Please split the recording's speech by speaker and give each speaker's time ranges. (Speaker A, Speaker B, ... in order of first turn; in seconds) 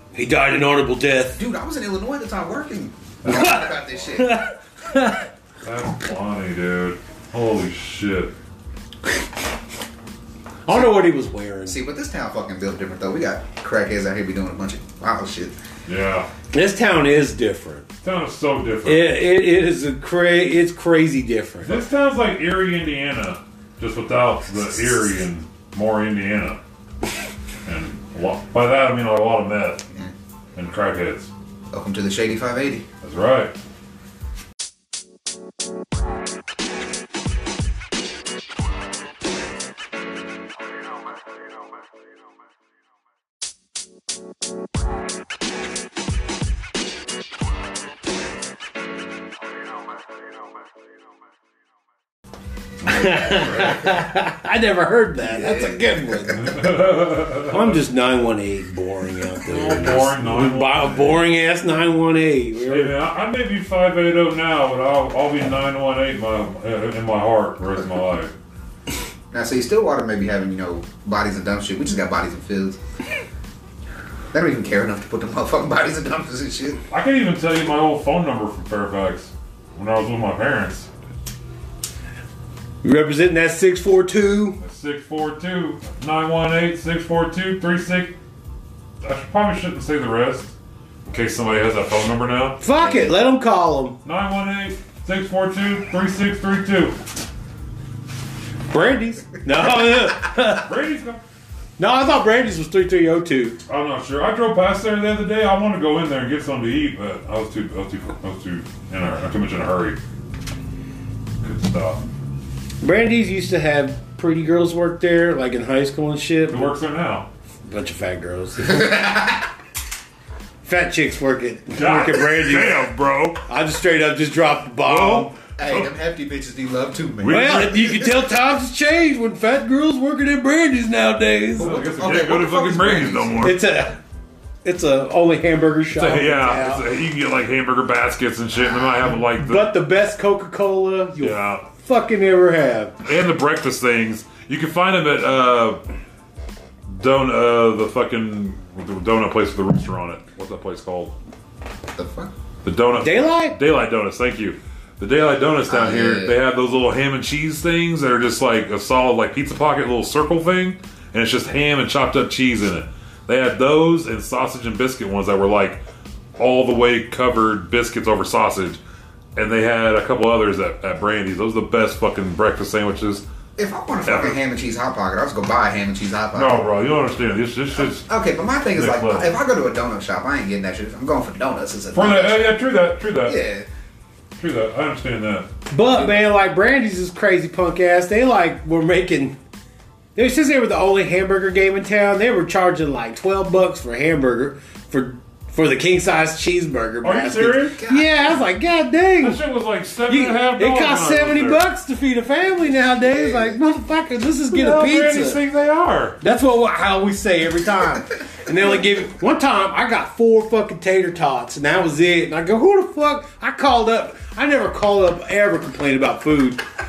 Speaker A: 0.1-1.4, 3.3-3.6, 4.2-5.2, 10.7-11.8, 16.5-17.9, 18.9-21.8, 52.9-56.5, 57.5-62.9, 82.8-84.6, 92.6-94.0, 98.7-100.7, 101.8-103.6, 112.8-116.7, 117.7-119.3, 120.6-122.8, 123.5-125.3, 127.3-131.8, 133.4-134.0, 134.7-136.8, 139.3-142.9, 153.0-153.6, 185.7-189.4, 190.2-199.4, 200.1-205.4, 206.2-216.6
Speaker B: 1.4-4.4, 10.7-10.9, 11.7-15.5, 31.7-32.9, 55.2-56.4, 69.3-72.8, 74.3-76.8, 92.8-93.2, 118.7-119.5, 125.6-127.5, 131.6-133.6, 152.0-152.3, 155.7-156.4, 173.6-176.6, 177.8-182.6, 183.2-183.7, 197.8-198.3, 203.0-203.6
Speaker C: 3.2-3.6, 5.6-8.3, 15.9-16.3, 18.0-19.2, 21.7-26.6, 27.7-29.8, 30.6-31.3, 33.0-33.5, 52.9-53.8, 56.3-57.8, 59.5-61.2, 62.7-68.3, 76.9-80.9, 84.6-88.2, 89.0-90.5, 91.1-92.6, 94.0-97.0, 100.4-101.2, 103.7-110.0, 111.4-112.0, 116.5-117.3, 121.8-123.4, 124.8-125.9, 127.2-128.1, 131.6-133.6, 135.9-139.7, 141.2-141.7, 143.0-145.8, 146.9-151.1, 152.6-165.8, 166.4-168.8, 169.4-173.2, 174.1-174.4, 176.3-178.1, 178.8-179.3, 181.9-183.4, 184.4-185.5, 197.0-197.8, 199.2-201.6, 204.5-206.2